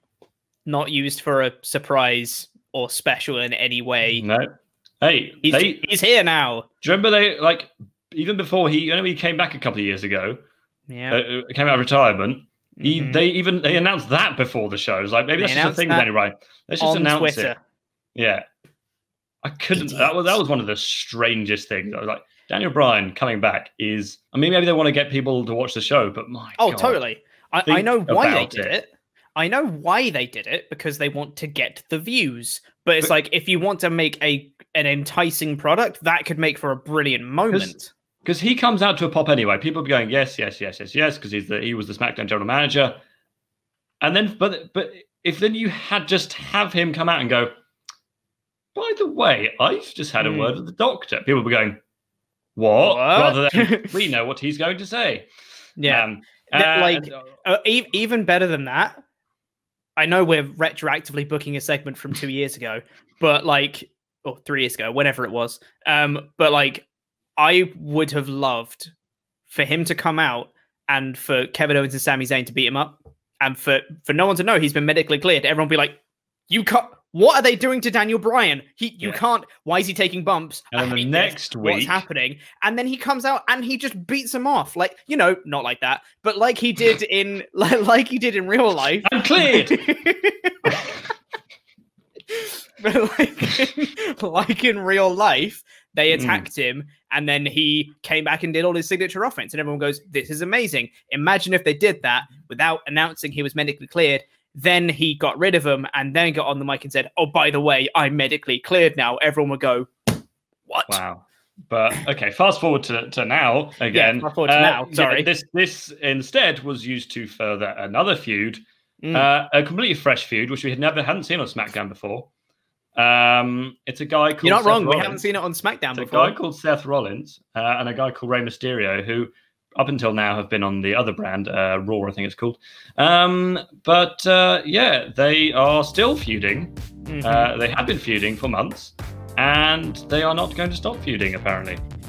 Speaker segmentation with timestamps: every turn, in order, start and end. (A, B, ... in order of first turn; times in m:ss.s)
0:00.6-0:04.2 A
0:04.2-0:05.9 B
0:05.4-0:06.7 A
0:06.8-0:10.4 B
0:10.9-0:11.2 A
0:11.1-0:17.5 B
0:12.8-0:13.2 A
0:15.4-0:16.1 A
0:16.8-0:17.6 A
0:18.1-0:18.4 B
0:19.4-0:27.0 B
0:19.7-0:20.4 A
0:26.6-0:37.9 A
0:27.7-0:28.7 B
0:37.5-0:43.0 B
0:44.0-0:47.5 B
0:48.7-0:51.8 B
0:50.2-0:50.5 A
0:52.6-0:55.3 B
0:52.8-0:53.9 A
0:55.8-0:59.0 A
0:55.9-0:57.1 B
1:00.0-1:06.8 A
1:07.4-1:08.9 A
1:09.5-1:16.0 A
1:16.5-1:30.8 A
1:20.7-1:22.0 B
1:29.0-1:29.8 B
1:32.3-1:49.9 A
1:36.1-1:36.4 B
1:50.7-1:51.0 A
1:50.9-1:58.6 B
1:53.9-1:55.3 A
1:59.0-1:59.3 A
1:59.1-2:02.3 B
2:03.0-2:05.2 B
2:04.4-2:06.4 A
2:06.0-2:21.8 B
2:17.1-2:17.5 A